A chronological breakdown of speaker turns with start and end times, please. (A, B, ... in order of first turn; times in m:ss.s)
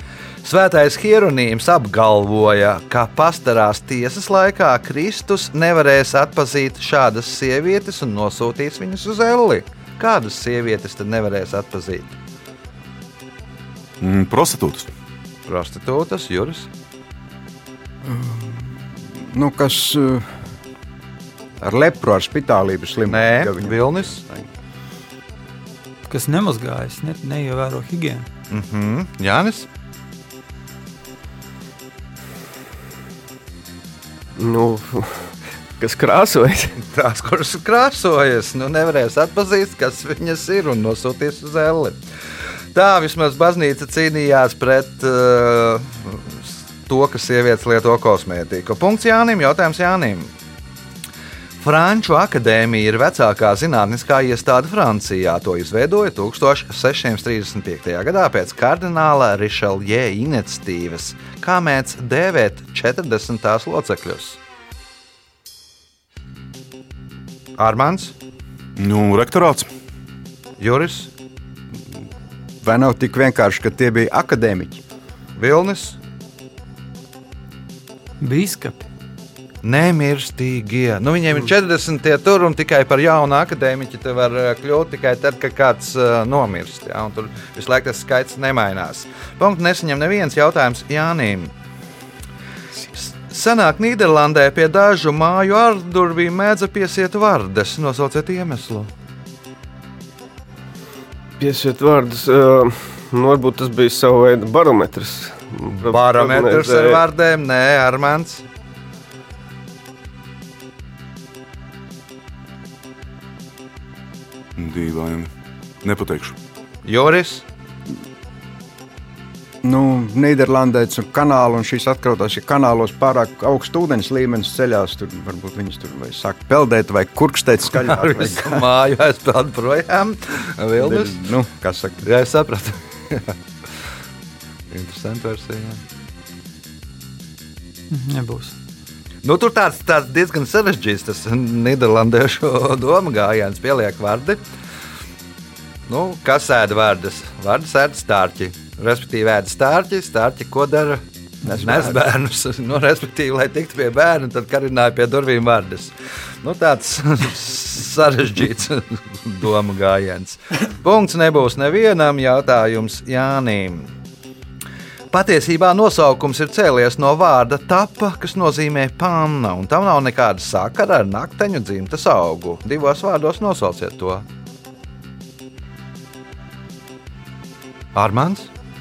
0:00.4-0:12.2 A
0:14.0-0:14.9 B
0:15.5-0:16.7 A
0:18.0-0:20.3 C
0:21.6-0:24.5 C
0:23.1-0:24.2 A
0:26.1-0:28.3 D
0:28.5-0:29.7 A
0:34.4-0:36.8 E
0:36.9-0:42.0 A
0:42.7-0:50.3 A
0:51.6-1:04.4 A
1:07.6-1:08.1 A
1:08.8-1:09.7 B
1:10.6-1:11.1 A
1:12.6-1:14.8 C
1:15.4-1:16.0 A
1:18.2-1:18.9 D
1:19.6-1:31.5 A
1:33.0-1:38.9 A
1:41.4-1:47.0 E
1:45.8-1:48.4 A
1:54.6-1:55.3 B
1:55.8-1:56.4 B
1:56.8-1:57.4 A
1:59.6-2:08.7 C
2:07.8-2:11.2 A
2:10.8-2:12.1 C
2:12.0-2:13.4 A
2:14.7-2:15.8 A
2:17.9-2:18.6 D
2:19.2-2:24.4 A
2:25.9-2:43.9 A
2:31.5-2:32.0 C
2:45.1-2:54.2 A
2:58.0-2:58.5 A